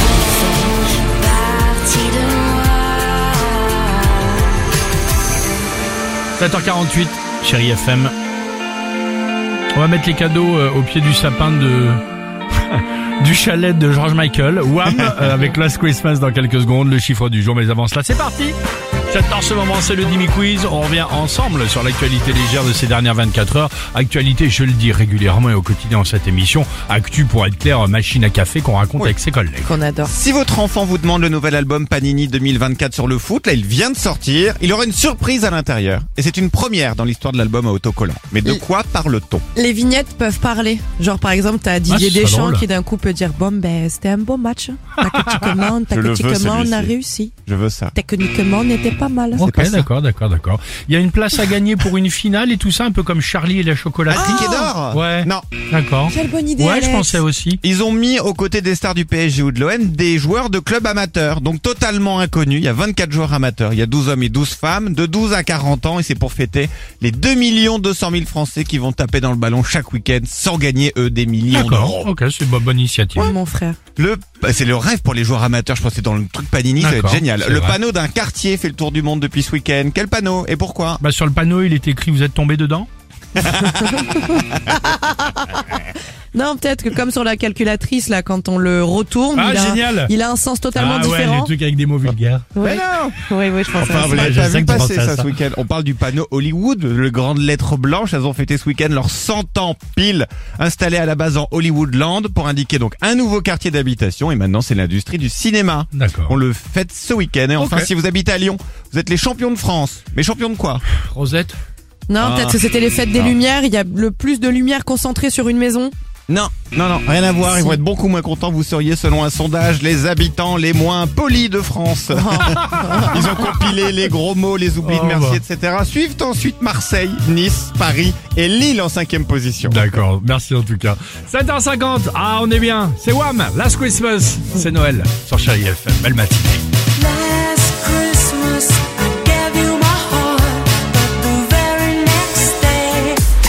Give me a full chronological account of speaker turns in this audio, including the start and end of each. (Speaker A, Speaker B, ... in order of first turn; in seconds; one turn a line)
Speaker A: 1.3-2.6
Speaker B: 6.4-8.1
Speaker B: 9.7-12.0
Speaker B: 12.6-18.6
Speaker B: 19.1-29.7
Speaker C: 29.6-30.1
Speaker D: 30.1-39.4
Speaker C: 39.5-47.3
Speaker B: 41.9-42.6
Speaker D: 45.9-46.9
Speaker D: 47.5-47.9
Speaker C: 47.9-49.5
Speaker B: 49.4-57.6
Speaker D: 49.4-49.9
Speaker D: 54.1-55.5
Speaker C: 54.2-54.7
Speaker C: 56.1-57.2
Speaker D: 57.6-72.1
Speaker B: 71.5-73.3
Speaker C: 73.2-73.8
Speaker D: 74.0-81.0
Speaker B: 76.8-77.8
Speaker B: 81.0-82.9
Speaker D: 83.4-84.1
Speaker C: 83.7-91.5
Speaker B: 89.3-90.1
Speaker B: 90.8-92.5
Speaker C: 92.5-94.3
Speaker D: 92.6-93.2
Speaker D: 93.8-110.8
Speaker B: 93.8-95.3
Speaker B: 105.9-106.4
Speaker B: 107.6-107.9
Speaker B: 111.1-111.6
Speaker C: 112.1-115.9
Speaker D: 112.2-112.6
Speaker D: 116.3-129.8
Speaker C: 117.5-117.8
Speaker C: 122.1-123.3
Speaker B: 124.8-125.4
Speaker B: 129.6-136.6
Speaker A: 137.0-143.2